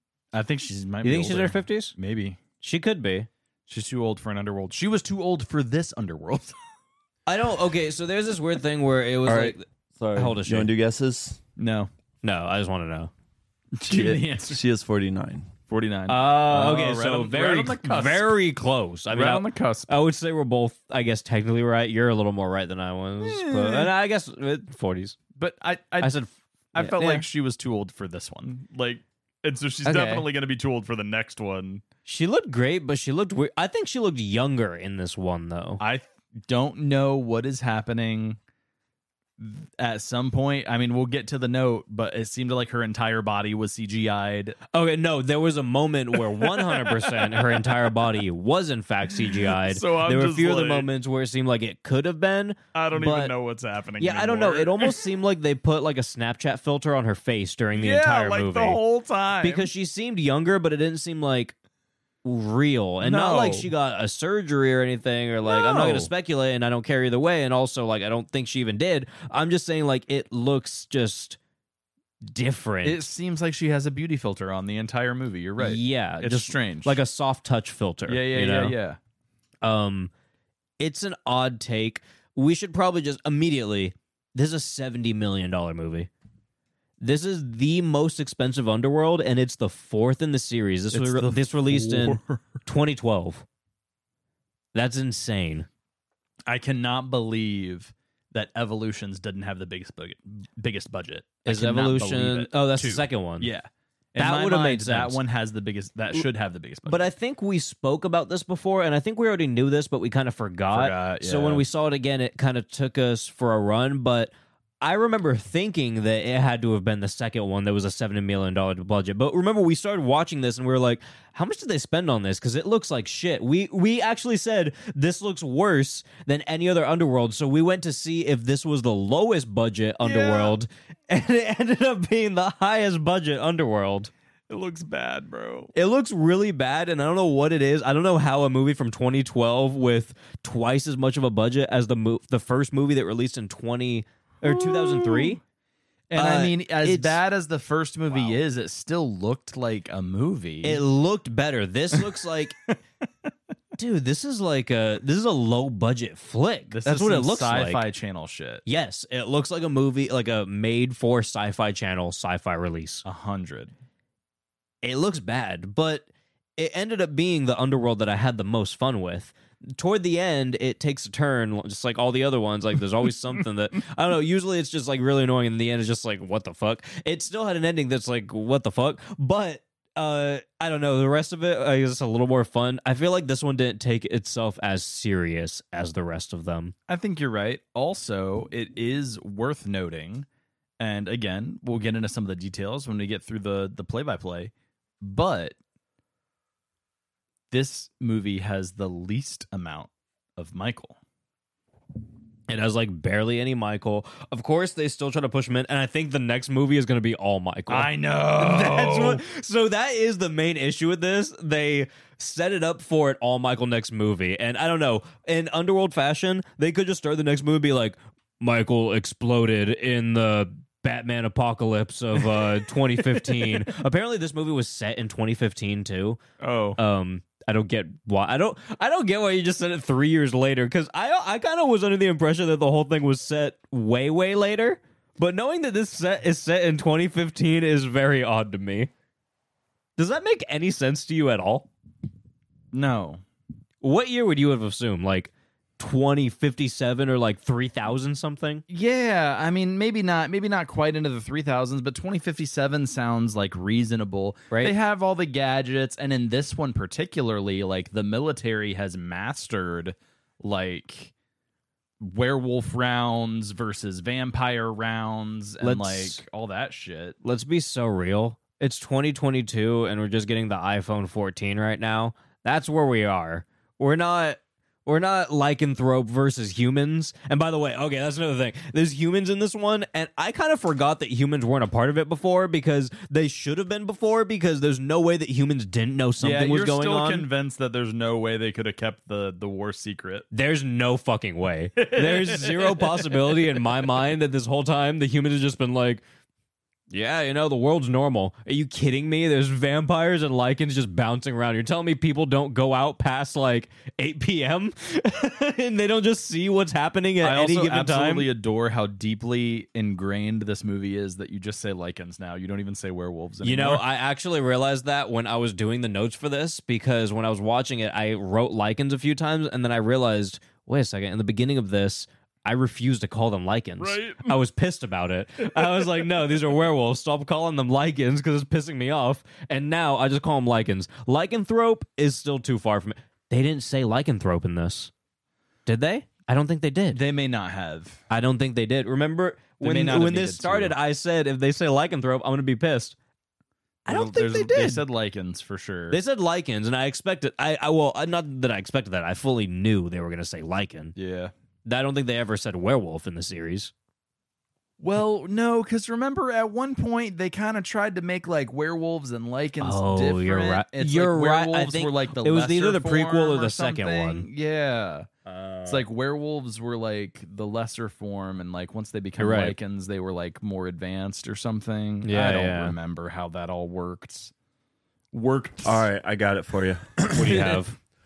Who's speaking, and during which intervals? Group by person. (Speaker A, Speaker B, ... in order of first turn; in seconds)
Speaker A: 0.3-2.4, 3.7-6.5, 11.6-11.9, 13.8-14.6, 15.7-18.4, 19.1-19.9, 23.2-23.9, 25.4-26.2, 26.7-31.8, 35.8-38.4, 39.4-44.6, 46.1-47.8, 49.1-50.9, 52.7-55.0, 57.7-59.7, 63.0-63.7, 65.5-66.1, 72.8-77.0, 78.1-79.0, 90.9-92.6, 96.5-107.1, 110.7-111.6, 130.0-130.6, 134.5-135.7, 144.4-145.4, 146.1-150.8, 156.7-158.6, 163.0-163.7, 186.9-190.2, 190.8-195.6, 197.5-201.0, 207.7-209.2, 226.4-226.8, 242.7-243.2, 248.7-261.1, 262.0-267.2, 286.2-290.3, 291.8-293.6, 307.2-313.8, 323.8-324.4, 336.9-338.0, 339.6-340.8, 343.9-346.0, 350.9-351.3, 354.8-365.1, 365.6-374.3, 375.1-375.9
Speaker B: 1.0-1.9, 2.6-3.3, 7.3-9.6, 10.1-10.7, 12.2-13.1, 16.1-25.2, 26.0-27.3, 29.8-30.3, 32.0-35.8, 44.7-53.3, 54.0-58.8, 59.4-61.5, 62.2-71.4, 72.3-73.1, 75.6-78.7, 79.6-80.1, 80.8-86.1, 87.0-93.4, 94.7-95.7, 101.4-103.5, 104.2-105.2, 106.8-134.1, 135.7-145.4, 146.1-147.2, 150.6-152.6, 153.8-157.8, 158.7-163.0, 164.8-166.1, 166.6-186.7, 202.5-226.2, 226.8-238.9, 240.0-241.7, 243.8-248.6, 265.6-266.2, 267.2-287.3, 290.3-296.0, 296.9-308.3, 313.4-334.9, 335.6-337.0, 338.1-342.9, 343.9-344.8, 345.9-350.9, 351.6-353.7, 359.6-364.3, 365.2-365.8, 369.2-369.6, 372.0-372.8, 377.1-377.8
Speaker C: 9.2-11.4, 13.9-15.5, 375.6-377.6